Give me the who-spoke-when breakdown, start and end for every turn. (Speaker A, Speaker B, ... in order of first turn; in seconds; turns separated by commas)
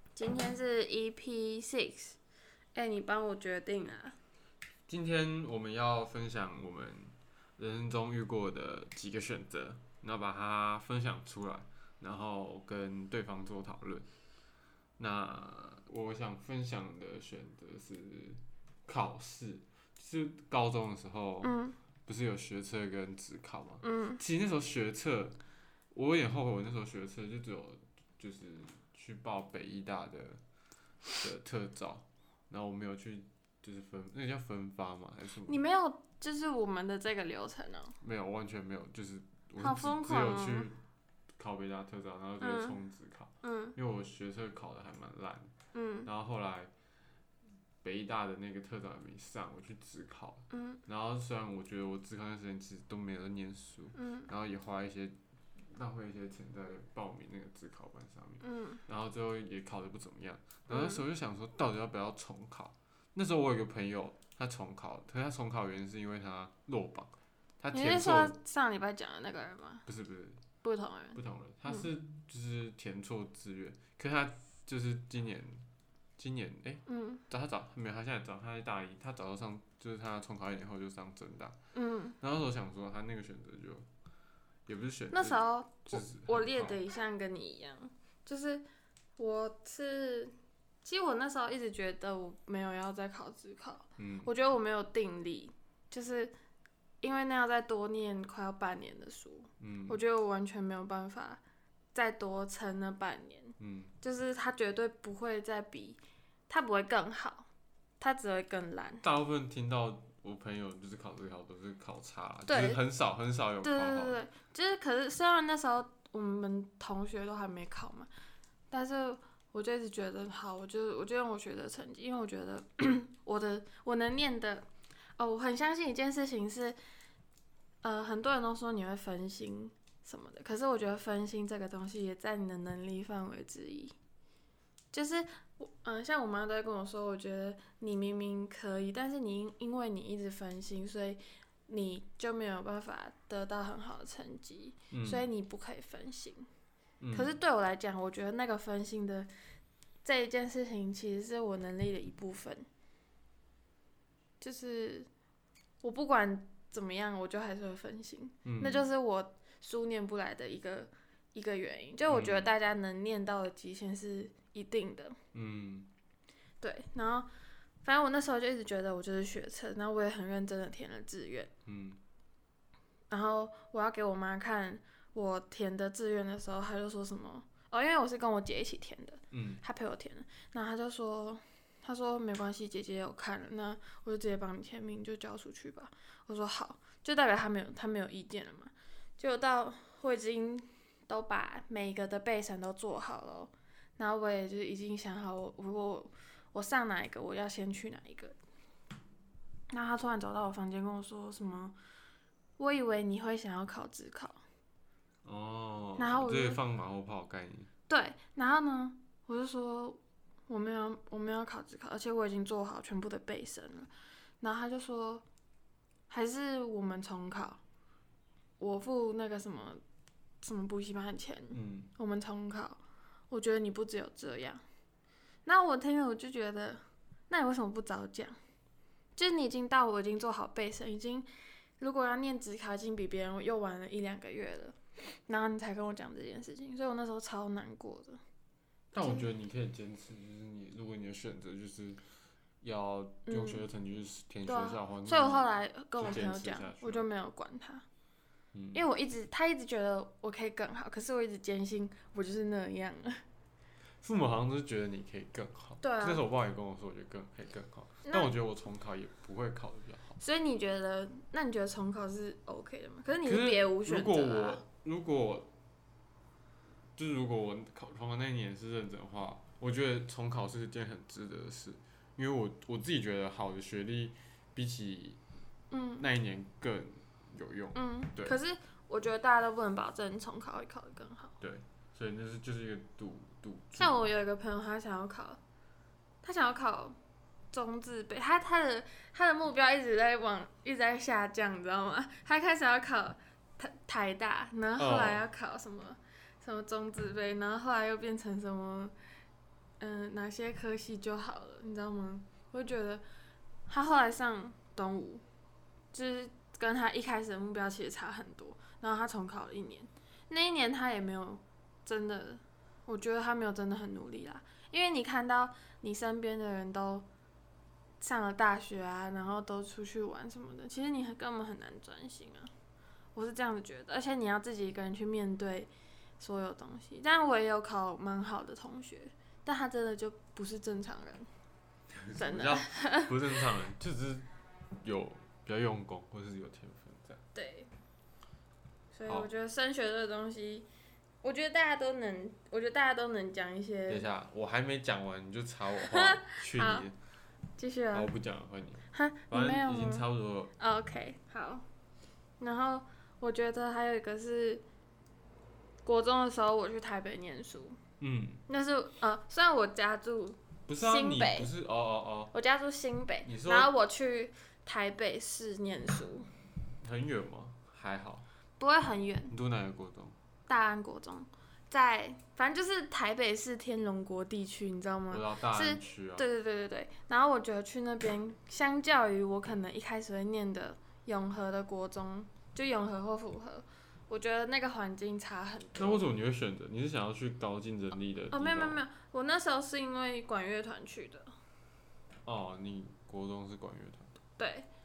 Speaker A: 0.2-2.2, Speaker A: 2.8-4.2, Speaker B: 4.9-14.1, Speaker B: 15.0-21.5, Speaker A: 21.4-21.8, Speaker B: 22.1-25.4, Speaker A: 23.8-24.2, Speaker B: 25.9-30.4, Speaker B: 31.2-35.6, Speaker A: 35.5-38.0, Speaker B: 38.0-40.8, Speaker A: 39.6-40.7, Speaker B: 41.4-45.5, Speaker A: 42.4-42.8, Speaker A: 43.4-43.8, Speaker A: 45.7-46.1, Speaker B: 46.1-46.7, Speaker B: 47.8-68.4, Speaker A: 50.5-50.8, Speaker A: 54.0-54.3, Speaker A: 58.4-58.8, Speaker A: 60.7-61.0, Speaker A: 67.7-69.8, Speaker B: 69.9-70.4, Speaker A: 70.6-71.9, Speaker B: 71.2-75.7, Speaker B: 76.2-81.6, Speaker A: 76.9-77.2, Speaker A: 81.7-82.2, Speaker B: 82.2-83.9, Speaker B: 84.7-86.8, Speaker A: 85.1-88.7, Speaker A: 89.2-96.3, Speaker B: 94.0-94.3, Speaker A: 97.0-101.4, Speaker B: 99.6-100.0, Speaker A: 101.9-107.5, Speaker B: 103.6-103.9, Speaker A: 108.0-109.0, Speaker B: 109.0-114.2, Speaker A: 112.5-112.8, Speaker A: 113.6-118.1, Speaker A: 118.7-124.7, Speaker A: 125.2-126.8, Speaker A: 127.8-133.9, Speaker A: 134.9-146.5, Speaker B: 144.9-145.2, Speaker B: 147.0-147.3, Speaker A: 147.1-149.3, Speaker A: 150.0-152.7, Speaker A: 154.4-155.1, Speaker A: 155.8-165.2, Speaker B: 158.4-158.9, Speaker B: 162.1-162.5, Speaker B: 165.3-165.9, Speaker A: 166.6-167.3, Speaker A: 167.8-171.5, Speaker B: 171.7-172.0, Speaker A: 173.1-198.3, Speaker B: 179.3-179.6, Speaker A: 199.7-201.8, Speaker A: 202.6-204.4, Speaker B: 205.2-207.7, Speaker A: 206.0-206.6, Speaker A: 207.9-213.9, Speaker A: 214.4-215.2, Speaker A: 216.1-217.6, Speaker A: 218.6-219.8, Speaker A: 220.4-224.6, Speaker B: 221.5-221.9, Speaker A: 225.4-228.4, Speaker A: 229.2-231.3, Speaker A: 231.8-238.2, Speaker B: 238.9-242.0, Speaker A: 239.0-239.3, Speaker B: 242.6-247.1, Speaker A: 243.3-243.6, Speaker A: 244.5-247.8, Speaker B: 248.5-248.8, Speaker A: 248.7-253.2, Speaker B: 254.0-260.2, Speaker A: 255.8-256.2, Speaker A: 258.1-258.3, Speaker A: 260.2-264.6, Speaker B: 263.2-265.5, Speaker B: 267.0-275.2, Speaker A: 275.7-276.1, Speaker B: 276.0-278.4, Speaker A: 277.7-281.4, Speaker B: 281.4-284.0, Speaker A: 283.8-285.4, Speaker A: 286.2-287.0, Speaker A: 287.5-298.9, Speaker B: 294.8-295.2, Speaker A: 299.8-303.0, Speaker A: 303.7-305.2, Speaker A: 305.9-317.1, Speaker A: 318.0-322.5, Speaker A: 323.1-331.3, Speaker B: 331.9-334.3, Speaker A: 332.1-333.4, Speaker B: 334.8-337.2, Speaker A: 337.4-337.7, Speaker A: 338.9-340.7, Speaker A: 341.2-344.1, Speaker B: 343.9-347.0, Speaker A: 345.9-346.9, Speaker A: 347.6-348.1, Speaker B: 347.9-350.5, Speaker A: 348.9-350.1, Speaker A: 350.6-351.6, Speaker A: 352.4-354.6, Speaker A: 355.9-357.8, Speaker B: 358.0-358.4, Speaker A: 358.5-361.5, Speaker B: 360.7-362.3, Speaker A: 362.3-366.3, Speaker B: 363.2-363.7, Speaker B: 366.8-368.3, Speaker A: 368.6-369.3, Speaker B: 369.3-370.2, Speaker A: 370.5-386.0, Speaker B: 375.1-376.3, Speaker B: 385.8-388.8, Speaker A: 388.3-391.3, Speaker B: 392.2-394.1, Speaker A: 394.4-394.7